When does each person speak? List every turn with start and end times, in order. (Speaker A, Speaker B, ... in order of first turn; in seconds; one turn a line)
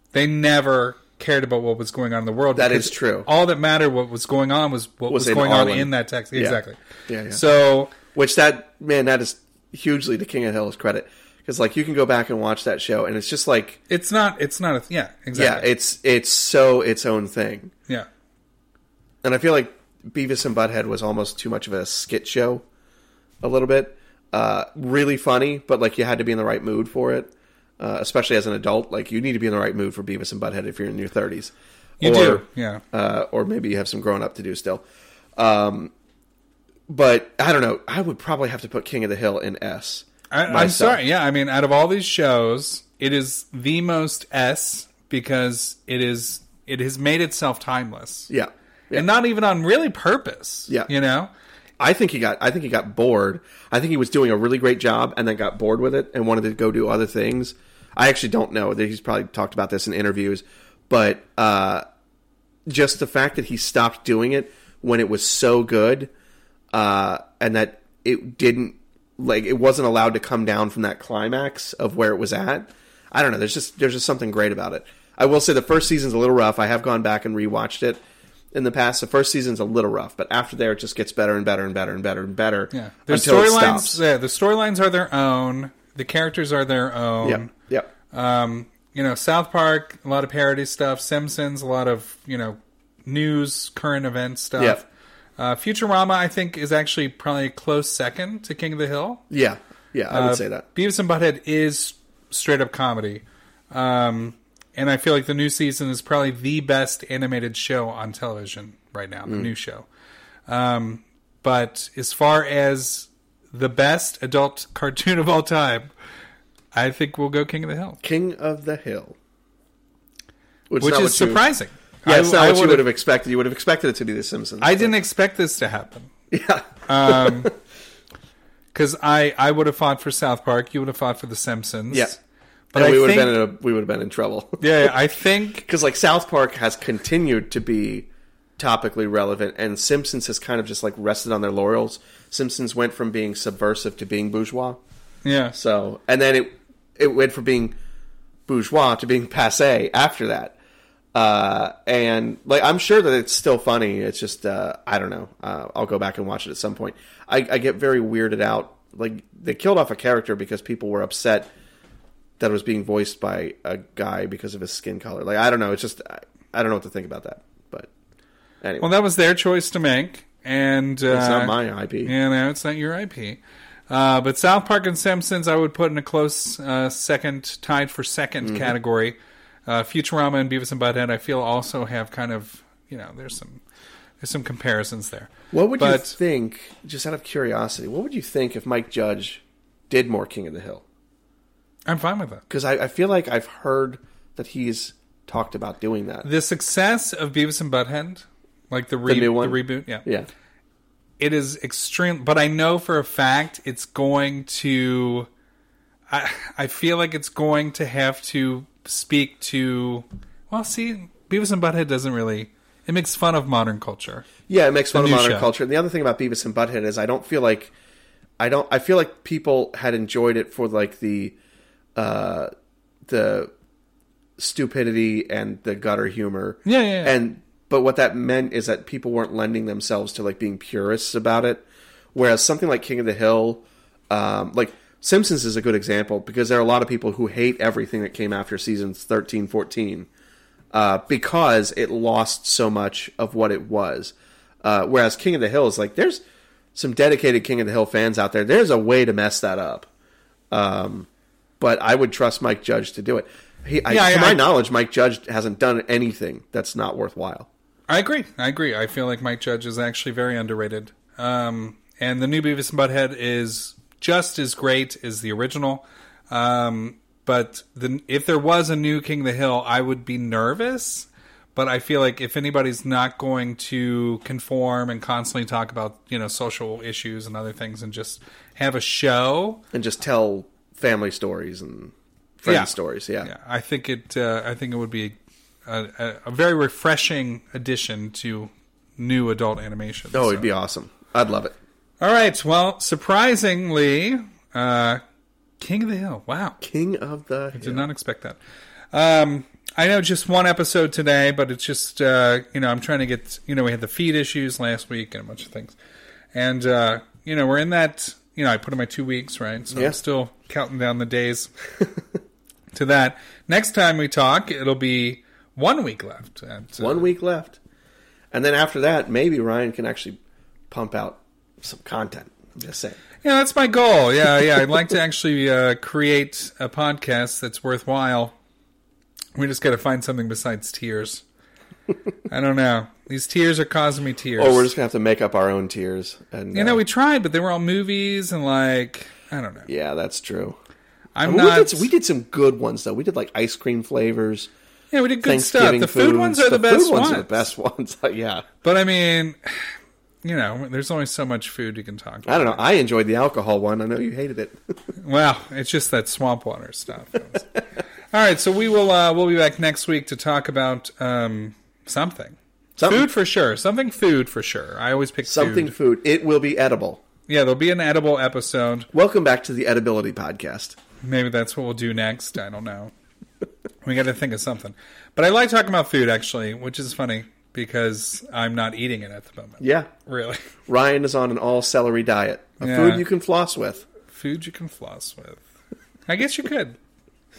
Speaker A: 0.1-6.8
Speaker B: 2.6-3.3
Speaker B: 5.1-7.4
Speaker A: 7.3-8.0
Speaker B: 8.0-13.8
Speaker A: 13.9-15.7
Speaker B: 15.3-17.7
Speaker B: 19.2-22.6
Speaker B: 23.4-34.8
Speaker A: 32.0-32.8
Speaker B: 35.4-35.9
Speaker B: 36.9-41.0
Speaker A: 40.3-48.3
Speaker B: 48.3-49.1
Speaker A: 48.9-51.3
Speaker B: 51.8-61.9
Speaker B: 62.7-66.1
Speaker B: 66.7-78.0
Speaker B: 78.5-84.0
Speaker A: 82.7-87.5
Speaker B: 87.2-87.9
Speaker A: 88.1-94.8
Speaker B: 94.6-94.8
Speaker A: 95.4-99.2
Speaker B: 99.3-100.7
Speaker A: 100.1-109.9
Speaker B: 109.3-109.5
Speaker A: 110.5-115.9
Speaker A: 116.7-118.0
Speaker B: 118.0-119.2
Speaker B: 120.7-121.4
Speaker A: 120.8-122.9
Speaker B: 122.0-125.0
Speaker A: 124.6-126.1
Speaker B: 126.3-127.5
Speaker A: 126.9-127.5
Speaker A: 128.7-132.2
Speaker B: 131.9-132.2
Speaker A: 132.7-133.4
Speaker B: 132.8-134.9
Speaker A: 134.6-135.7
Speaker B: 135.7-144.8
Speaker A: 145.2-145.6
Speaker B: 145.5-147.8
Speaker B: 148.5-150.6
Speaker B: 151.1-161.5
Speaker B: 162.4-167.9
Speaker B: 168.6-168.9
Speaker A: 168.8-183.6
Speaker B: 171.1-172.1
Speaker B: 178.4-178.8
Speaker A: 184.2-186.2
Speaker B: 185.5-190.8
Speaker A: 191.9-192.4
Speaker B: 192.5-196.3
Speaker A: 196.2-200.1
Speaker B: 199.1-200.3
Speaker A: 201.2-205.3
Speaker A: 206.1-214.3
Speaker B: 214.5-217.7
Speaker A: 214.9-215.5
Speaker B: 218.4-221.4
Speaker B: 221.9-222.5
Speaker B: 223.1-223.5
Speaker B: 224.4-240.1
Speaker A: 226.7-227.2
Speaker B: 240.7-246.2
Speaker B: 246.8-249.9
Speaker B: 250.5-251.1
Speaker B: 251.6-257.5
Speaker A: 253.9-254.4
Speaker A: 257.9-279.6
Speaker B: 279.7-283.3
Speaker A: 282.4-290.5
Speaker B: 290.1-291.5
Speaker A: 292.0-295.0
Speaker A: 295.6-296.6
Speaker B: 296.6-297.9
Speaker A: 297.5-298.4
Speaker A: 298.9-305.8
Speaker A: 306.3-311.5
Speaker B: 309.7-310.0
Speaker A: 312.7-317.1
Speaker B: 316.8-317.6
Speaker B: 318.3-320.2
Speaker B: 320.7-323.0
Speaker A: 323.2-328.3
Speaker A: 329.4-331.2
Speaker A: 332.3-334.7
Speaker B: 334.4-336.8
Speaker A: 336.5-339.7
Speaker B: 339.7-340.6
Speaker A: 341.2-341.9
Speaker B: 341.2-344.5
Speaker A: 344.9-347.5
Speaker B: 345.2-348.5
Speaker A: 348.6-349.6
Speaker A: 350.2-352.6
Speaker B: 352.3-354.6
Speaker A: 355.0-357.4
Speaker A: 358.1-365.7
Speaker B: 362.8-363.1
Speaker B: 365.2-367.0
Speaker A: 367.3-368.9
Speaker B: 368.9-370.8
Speaker A: 371.0-372.9
Speaker A: 373.8-380.4
Speaker B: 379.6-379.9
Speaker B: 380.7-383.9
Speaker A: 382.6-383.1
Speaker A: 384.1-385.4
Speaker A: 386.1-386.8